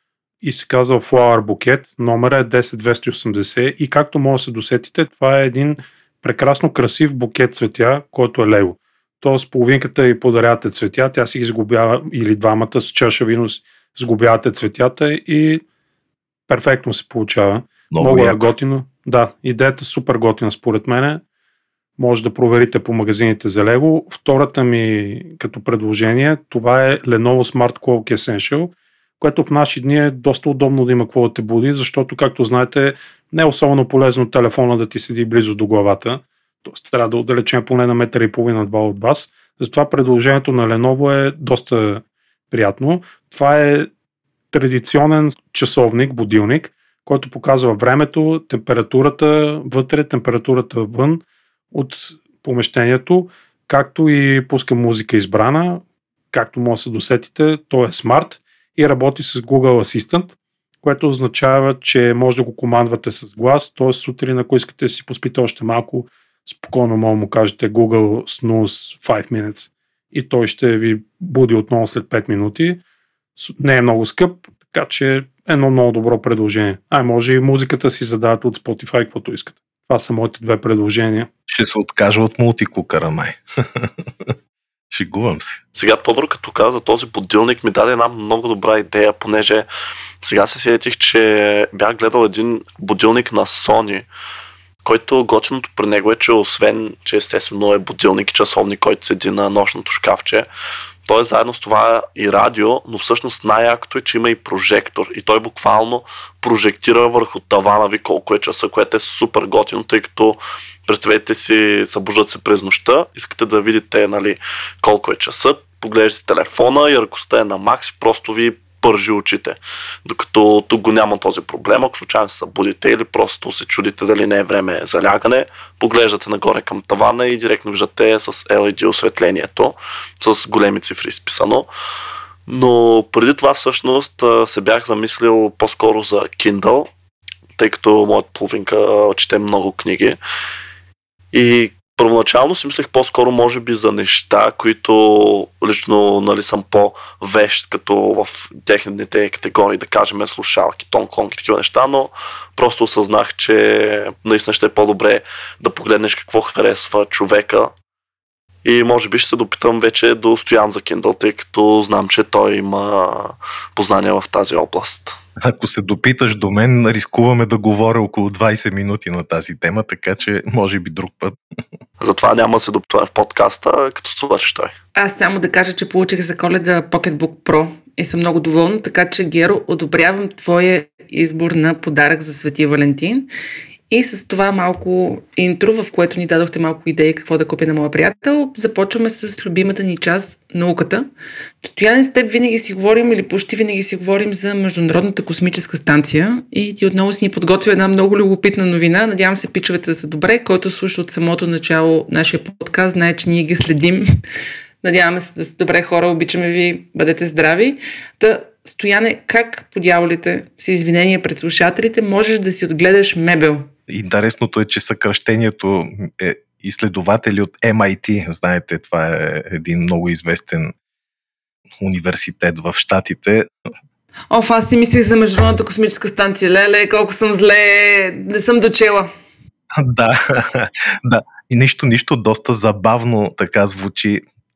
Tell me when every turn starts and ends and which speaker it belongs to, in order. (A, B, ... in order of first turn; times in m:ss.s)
0:00.4-0:15.6 A
0:16.5-0:21.2 A
0:17.9-0:18.5 B
0:22.0-0:43.9 A
0:44.5-1:12.8 A
1:13.4-1:21.3 A
1:21.5-1:24.3 B
1:24.9-1:25.6 B
1:25.8-1:29.7 C
1:30.2-1:34.1 C
1:34.8-1:40.5 C
1:41.1-2:11.7 C
2:12.5-2:16.9 C
2:17.6-2:20.2 C
2:21.3-2:37.7 C
2:38.6-2:45.2 C
2:45.4-2:51.4 B
2:52.0-2:54.7 C
2:55.0-3:03.3 D
3:03.9-3:11.1 D
3:11.6-3:24.0 D
3:24.8-3:33.7 D
3:33.9-3:40.7 B
3:41.8-3:43.5 B
3:44.3-3:49.1 D
3:49.8-3:54.2 B